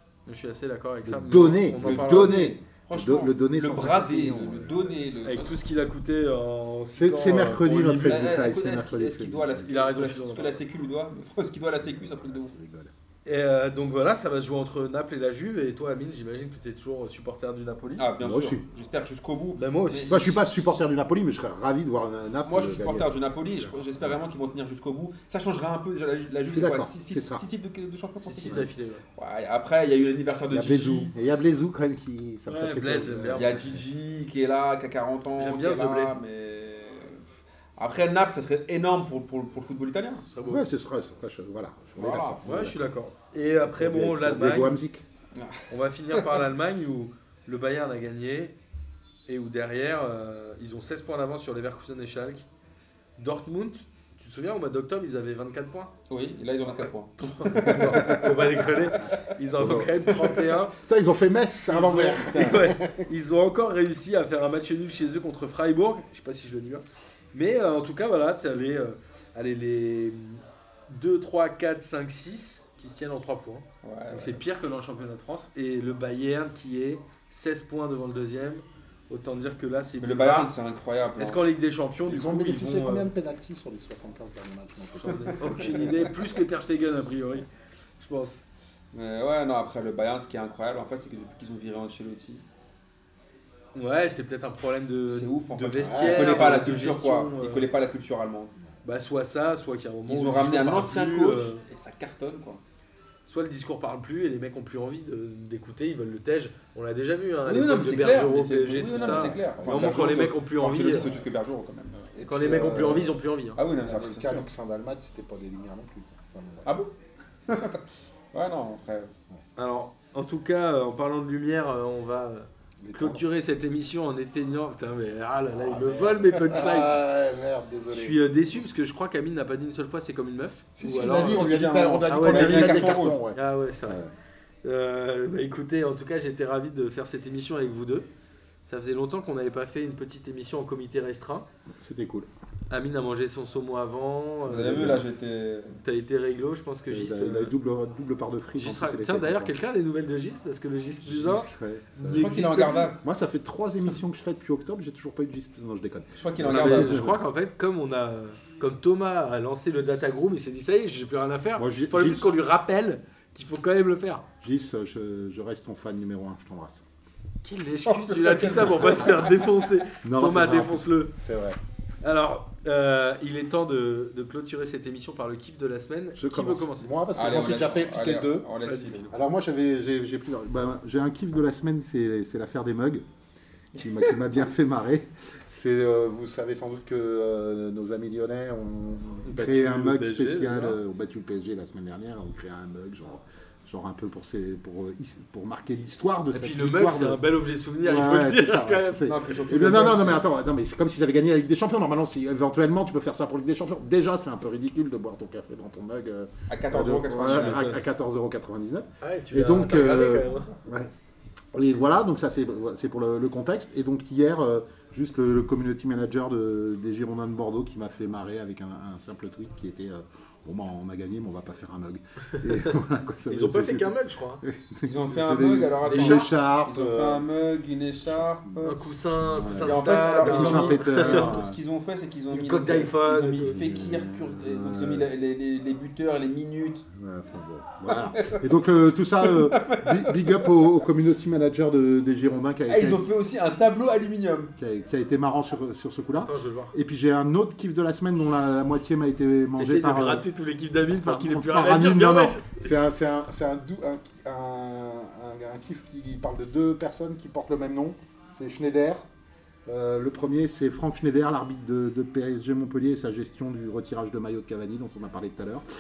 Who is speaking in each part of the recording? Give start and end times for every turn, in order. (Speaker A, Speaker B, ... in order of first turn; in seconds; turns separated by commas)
Speaker A: 0.2-2.6, Speaker B: 1.0-5.0, Speaker C: 1.8-5.6, Speaker A: 5.2-8.5, Speaker B: 6.9-9.7, Speaker C: 8.0-12.5, Speaker A: 9.6-10.6, Speaker B: 11.8-12.9, Speaker A: 13.2-18.1, Speaker C: 18.0-20.8, Speaker B: 18.2-18.6, Speaker A: 19.6-20.3, Speaker B: 20.1-23.1, Speaker C: 22.4-31.1, Speaker B: 23.6-24.2, Speaker B: 26.5-27.4, Speaker A: 28.2-29.0, Speaker B: 30.5-33.8, Speaker A: 32.5-33.6, Speaker C: 33.3-37.2, Speaker A: 35.4-36.1, Speaker C: 37.8-40.2, Speaker A: 40.3-40.6, Speaker B: 40.4-42.8, Speaker C: 42.0-42.4, Speaker A: 42.4-44.7, Speaker B: 43.6-45.0, Speaker C: 45.3-46.4, Speaker A: 45.7-48.6, Speaker A: 49.3-52.5, Speaker A: 53.2-55.9, Speaker C: 56.1-59.8, Speaker A: 56.8-60.7, Speaker B: 59.6-59.9, Speaker B: 60.8-63.1, Speaker A: 61.7-80.5, Speaker C: 61.7-62.7, Speaker C: 73.8-74.4, Speaker C: 80.0-81.4, Speaker A: 81.2-83.1, Speaker B: 82.1-86.0, Speaker A: 85.0-87.5, Speaker A: 88.0-88.5, Speaker C: 88.9-92.4, Speaker A: 93.7-97.7, Speaker C: 95.1-98.5, Speaker B: 95.8-96.7, Speaker A: 98.8-101.6, Speaker C: 100.1-102.6, Speaker A: 103.3-111.1, Speaker C: 107.5-112.1, Speaker B: 109.0-110.0, Speaker B: 112.1-113.2, Speaker A: 112.2-113.6, Speaker C: 113.5-114.5, Speaker B: 113.8-116.8, Speaker C: 116.6-116.9, Speaker C: 117.5-119.1, Speaker A: 119.6-127.0, Speaker B: 122.8-123.2, Speaker B: 125.6-128.4, Speaker A: 127.9-134.0, Speaker B: 130.8-134.1, Speaker C: 130.9-133.2, Speaker A: 134.6-138.1, Speaker A: 138.6-141.5, Speaker B: 141.7-142.3, Speaker A: 142.7-145.0, Speaker C: 144.4-145.8, Speaker B: 144.5-145.0, Speaker A: 145.8-147.5, Speaker B: 146.9-149.5, Speaker A: 148.6-152.9, Speaker B: 151.0-152.3, Speaker C: 152.1-153.0, Speaker B: 153.0-157.2, Speaker C: 156.1-157.1, Speaker A: 156.4-164.2, Speaker B: 161.6-162.3, Speaker B: 164.4-166.8, Speaker A: 167.4-171.1, Speaker B: 168.1-169.1, Speaker B: 170.0-171.6, Speaker A: 172.0-176.9, Speaker B: 176.2-178.5, Speaker C: 177.1-179.1, Speaker A: 178.6-179.1, Speaker B: 179.1-183.0, Speaker B: 183.7-197.2, Speaker A: 189.2-190.8, Speaker A: 196.3-199.2, Speaker B: 197.8-210.9, Speaker C: 199.0-200.2, Speaker C: 206.5-207.8, Speaker A: 207.2-207.8, Speaker A: 209.0-210.5, Speaker B: 211.5-227.2, Speaker A: 223.3-224.4, Speaker C: 224.8-228.8, Speaker A: 225.8-226.3, Speaker A: 228.6-231.4, Speaker B: 229.3-231.6, Speaker C: 229.5-236.8, Speaker A: 232.3-233.6, Speaker B: 233.5-235.1, Speaker B: 236.9-243.1, Speaker C: 237.9-238.4, Speaker C: 239.2-240.5, Speaker C: 242.7-244.5, Speaker B: 244.6-250.2, Speaker A: 246.2-246.7, Speaker A: 249.6-252.7, Speaker B: 250.8-259.1, Speaker B: 259.7-265.6